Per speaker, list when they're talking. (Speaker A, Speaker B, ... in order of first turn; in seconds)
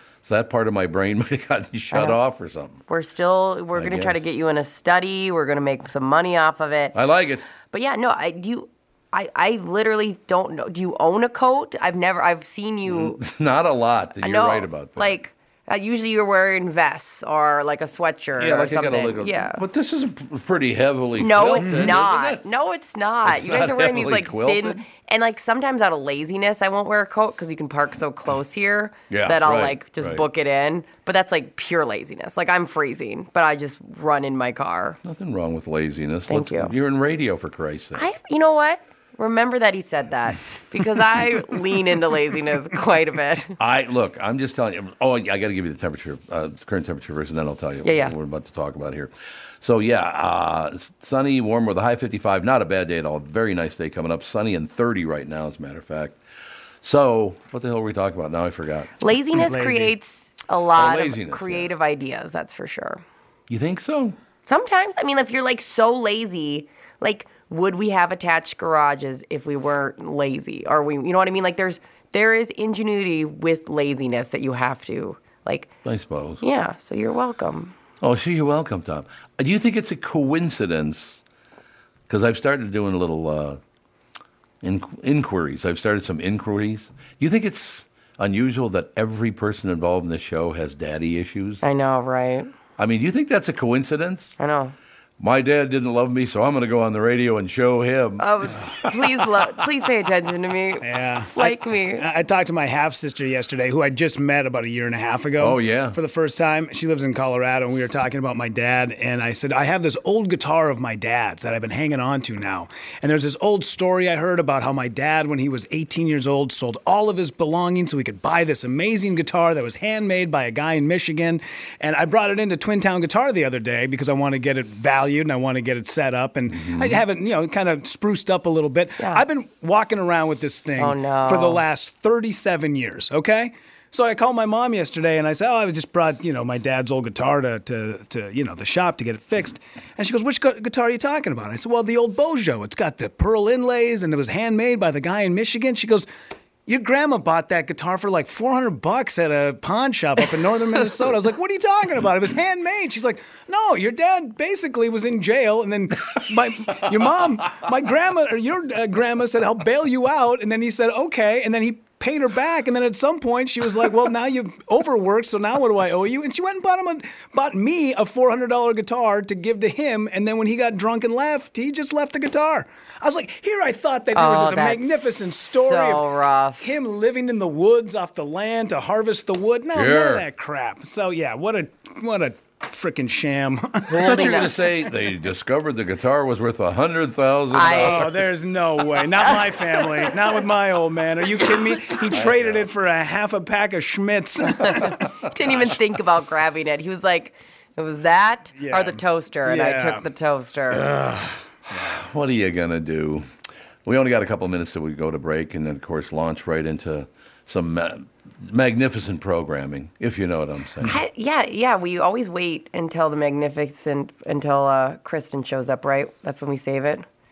Speaker A: 0.2-2.8, 3.8-4.2, 6.9-7.5, 12.9-15.2, 18.4-22.4, 23.2-24.8, 29.1-30.2, 35.0-38.1, 43.6-56.2, 56.8-58.9, 60.8-61.7, 63.5-64.2, 75.8-76.4, 78.0-81.2, 82.1-83.6, 84.6-91.6, 92.8-94.4, 95.2-98.3, 105.4-106.0, 126.5-127.0, 179.7-180.2, 183.9-188.3, 192.1-192.7, 201.7-203.3, 203.8-210.9
Speaker B: 1.9-2.2, 2.9-7.0, 7.7-13.2, 14.2-19.6, 21.2-35.0, 36.3-36.7, 38.0-43.5, 47.8-48.1, 59.0-63.0, 64.5-75.7, 76.4-77.7, 91.6-92.5, 94.4-94.8, 98.2-102.0, 129.0-129.2, 130.8-131.6, 174.1-176.7, 183.9-184.5, 187.5-188.1, 194.6-200.9, 210.9-217.1
Speaker C: 21.6-21.9, 59.4-59.9, 100.8-146.1, 146.7-176.1, 176.6-184.1, 187.7-195.1, 198.6-200.1, 200.8-201.3